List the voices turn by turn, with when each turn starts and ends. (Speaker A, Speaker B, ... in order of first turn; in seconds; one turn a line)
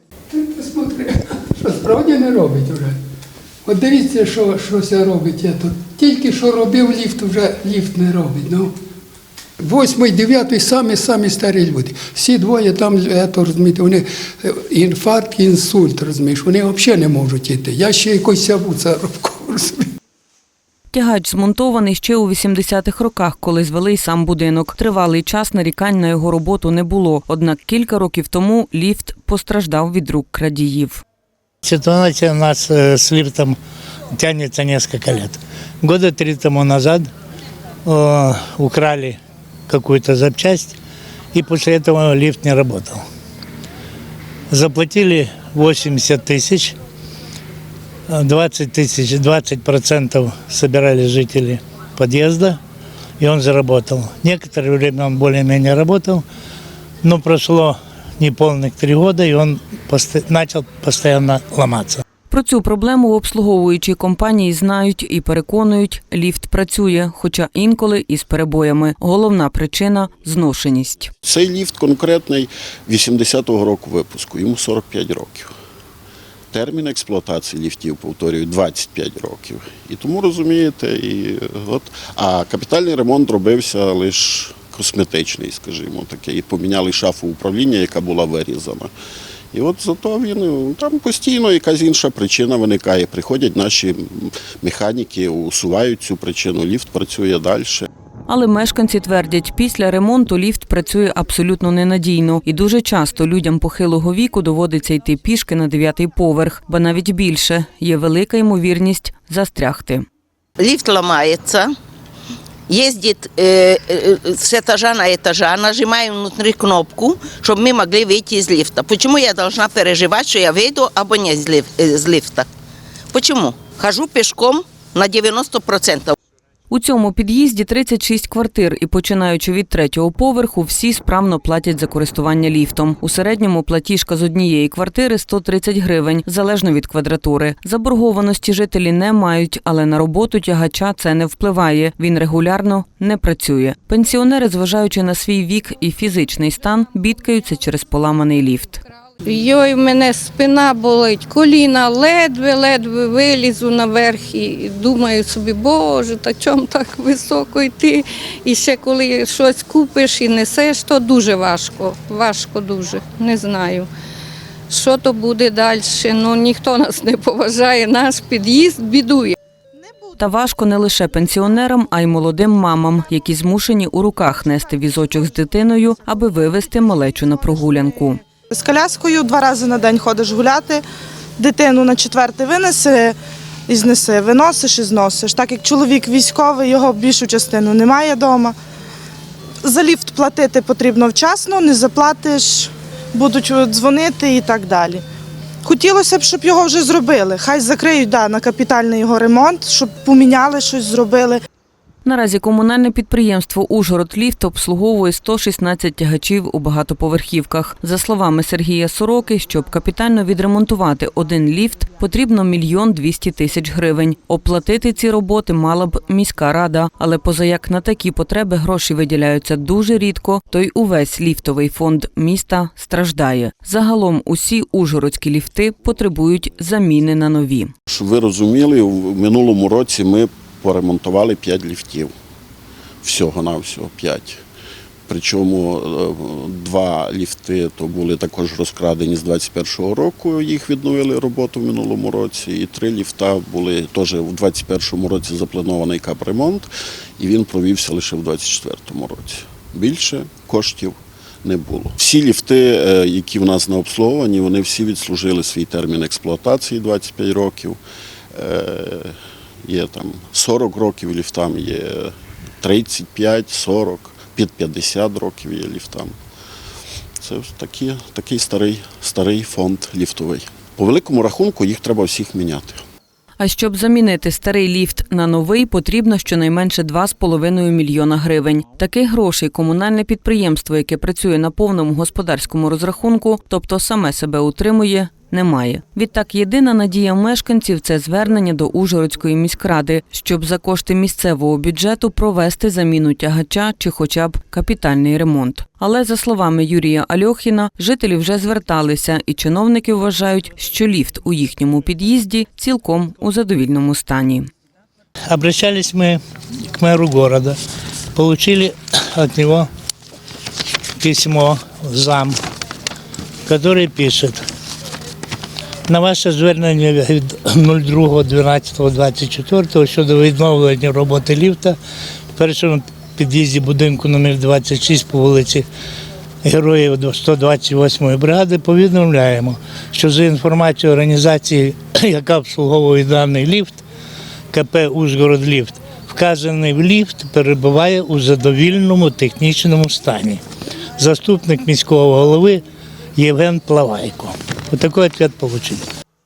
Speaker A: 0.3-3.0
Speaker A: 3.6-8.7
Speaker A: 9.6-19.9
Speaker B: 20.9-31.0
Speaker C: 31.6-33.6
Speaker C: 34.1-37.1
Speaker C: 37.9-40.8
Speaker C: 41.3-43.0
Speaker C: 44.5-46.8
Speaker C: 48.1-52.6
Speaker C: 53.2-56.2
Speaker C: 57.0-62.0
Speaker B: 62.3-71.1
Speaker D: 71.2-75.5
Speaker D: 76.5-88.9
Speaker D: 89.5-97.9
Speaker B: 98.3-110.0
Speaker E: 110.6-111.7
Speaker E: 112.7-122.5
Speaker E: 123.1-126.2
Speaker B: 126.7-148.8
Speaker F: 149.2-163.9
Speaker F: 164.7-169.3
Speaker B: 170.2-178.2
Speaker G: 178.5-180.8
Speaker G: 181.4-183.2
Speaker G: 183.7-188.6
Speaker G: 189.6-195.0
Speaker G: 195.6-201.4
Speaker B: 202.1-227.7
Speaker D: 227.9-232.1
Speaker D: 233.0-234.4
Speaker D: 235.1-246.7
Speaker D: 247.2-257.8
Speaker D: 258.4-266.2
Speaker D: 267.2-272.8
Speaker B: 273.4-304.5
Speaker C: 305.3-306.2
Speaker C: 306.7-307.6
Speaker C: 308.1-309.7
Speaker C: 311.0-312.4
Speaker C: 313.5-314.4
Speaker C: 315.9-321.8
Speaker C: 322.4-325.6
Speaker C: 326.4-333.8
Speaker C: 334.5-340.4
Speaker C: 341.0-342.6
Speaker C: 343.2-345.8